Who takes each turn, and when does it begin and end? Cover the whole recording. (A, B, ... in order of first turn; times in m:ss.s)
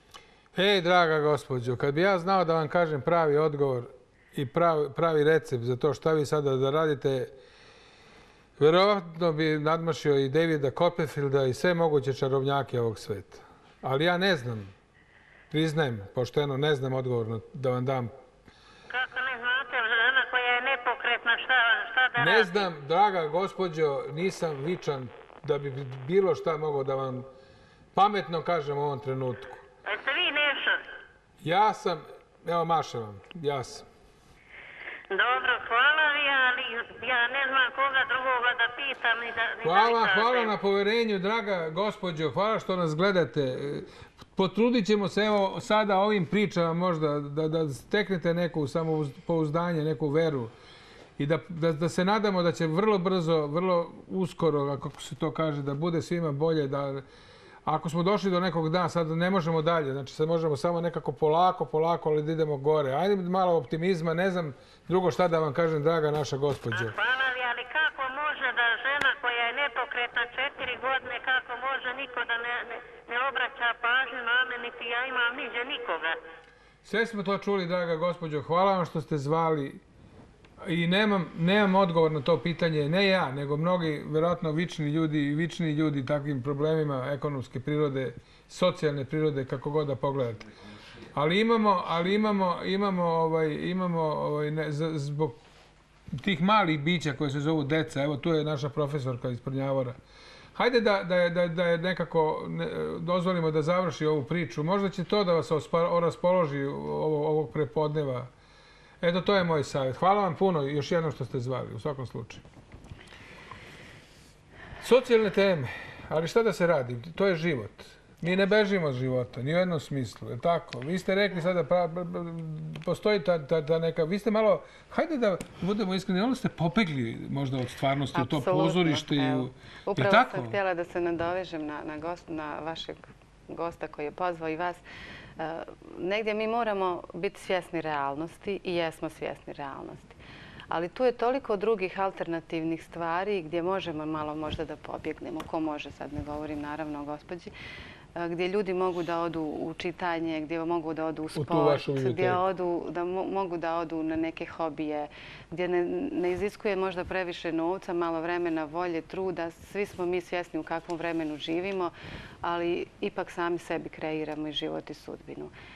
0:00.5-0:07.3 A
0:08.6-0:14.7 A
0:15.5-0:18.1 A
0:18.9-0:22.7 B
0:22.2-0:27.3 A
0:27.9-0:29.6 A
0:29.8-0:30.8 B
0:31.4-0:33.8 A
0:35.1-0:40.5 B
0:39.6-0:50.5 A
0:51.2-0:57.0 A
0:57.6-1:07.0 A
1:06.7-1:16.2 B
1:16.8-1:19.8 A
1:20.6-1:30.5 A
1:31.1-1:35.4 A
1:36.1-1:40.0 A
1:40.5-1:48.3 A
1:49.0-1:52.4 A
1:54.8-2:10.6 A
2:08.1-2:14.8 C
2:15.4-2:20.2 C
2:20.7-2:27.5 C
2:28.2-2:45.5 C
2:31.3-2:32.4 A